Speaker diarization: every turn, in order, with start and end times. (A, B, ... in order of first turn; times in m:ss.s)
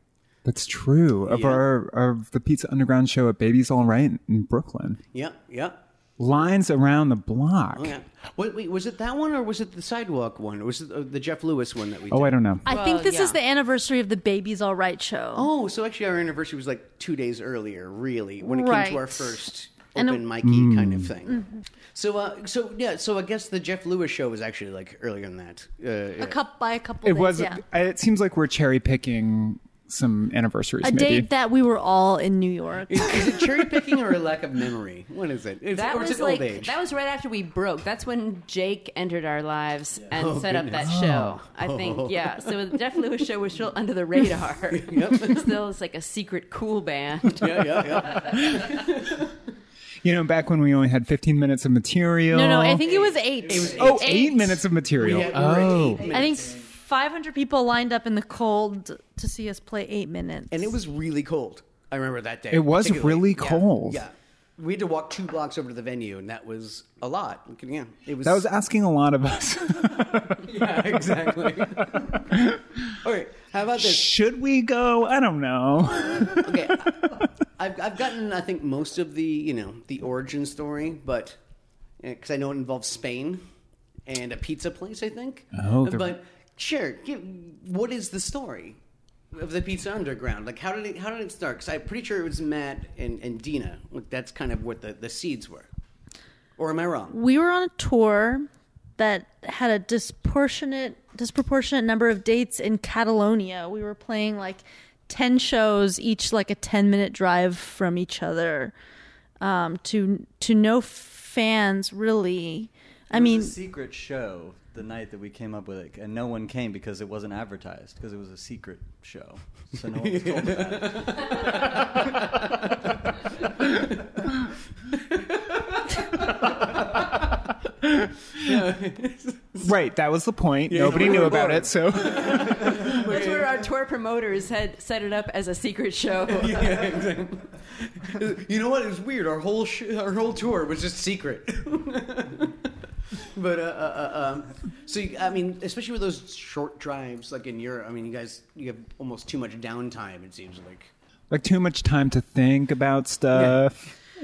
0:00.4-0:05.0 A
0:01.2-0:01.6 B
0:05.1-0:05.8 B
0:06.2-0:07.9 A
0:07.7-0:12.5 B
0:12.1-0:12.6 A
0:12.6-0:15.5 C
0:12.7-0:13.4 D
0:15.3-0:26.4 B
0:18.4-0:19.4 C
0:20.0-0:20.3 C
0:20.4-0:21.1 A
0:26.2-0:27.6 C
0:27.0-0:31.3 A
0:30.8-0:33.3 C
0:32.9-0:36.8 B
0:35.7-0:48.6 D
0:40.1-0:42.8 B
0:40.8-0:41.3 A
0:44.7-0:45.6 B
0:47.4-0:49.3 B
0:50.0-0:52.8 A
0:52.3-0:54.5 C
0:53.0-0:56.5 B
0:53.7-0:56.1 A
0:55.8-0:56.7 E
0:56.0-1:00.7 C
1:00.5-1:08.5 B
1:02.5-1:04.0 A
1:08.2-1:10.4 A
1:10.4-1:12.3 B
1:12.3-1:12.6 A
1:13.0-1:14.2 B
1:13.8-1:17.2 A
1:16.4-1:17.0 B
1:17.6-1:21.4 B
1:22.0-1:23.4 B
1:24.0-1:28.8 B
1:25.5-1:26.2 A
1:29.3-1:35.7 B
1:36.6-1:37.2 B
1:37.1-1:48.7 C
1:49.4-1:53.6 C
1:53.1-2:01.3 E
2:00.0-2:02.4 B
2:03.7-2:04.2 B
2:05.0-2:07.0 B
2:08.3-2:09.7 B
2:09.6-2:12.8 A
2:10.7-2:13.7 B
2:12.5-2:16.7 D
2:16.3-2:22.6 B
2:23.3-2:30.9 B
2:31.3-2:33.9 A
2:33.3-2:33.6 B